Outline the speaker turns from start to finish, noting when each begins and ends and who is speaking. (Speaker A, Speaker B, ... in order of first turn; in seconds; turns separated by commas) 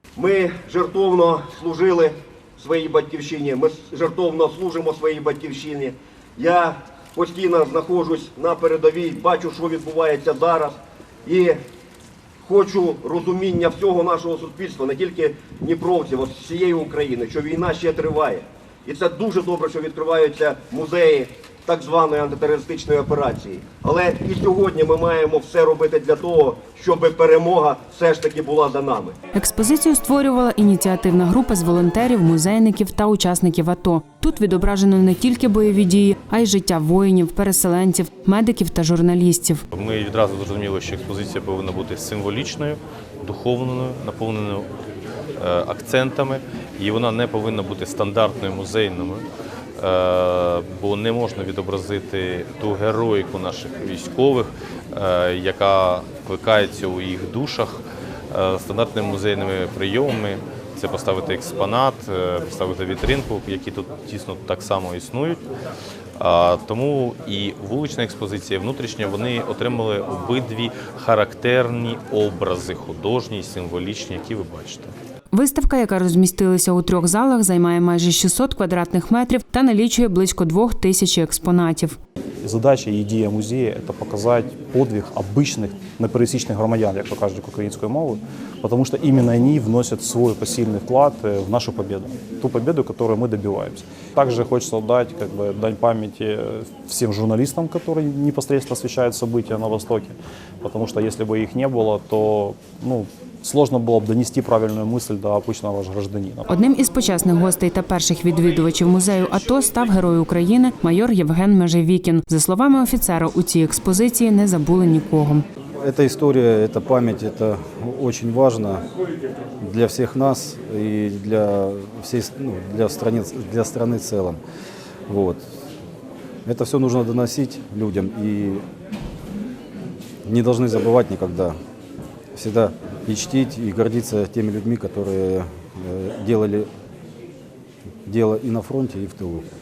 Speaker A: 0.2-11.6, Speaker A: 12.4-29.2, Speaker B: 29.3-39.6, Speaker C: 39.7-44.7, Speaker C: 45.4-49.3, Speaker C: 49.8-65.5, Speaker C: 66.2-74.9, Speaker B: 75.3-82.0, Speaker D: 82.4-106.5, Speaker B: 106.5-115.4, Speaker E: 115.8-118.8, Speaker E: 119.6-124.4, Speaker E: 125.1-125.5, Speaker E: 126.5-128.6, Speaker E: 130.3-131.6, Speaker E: 132.3-136.7, Speaker E: 138.1-139.4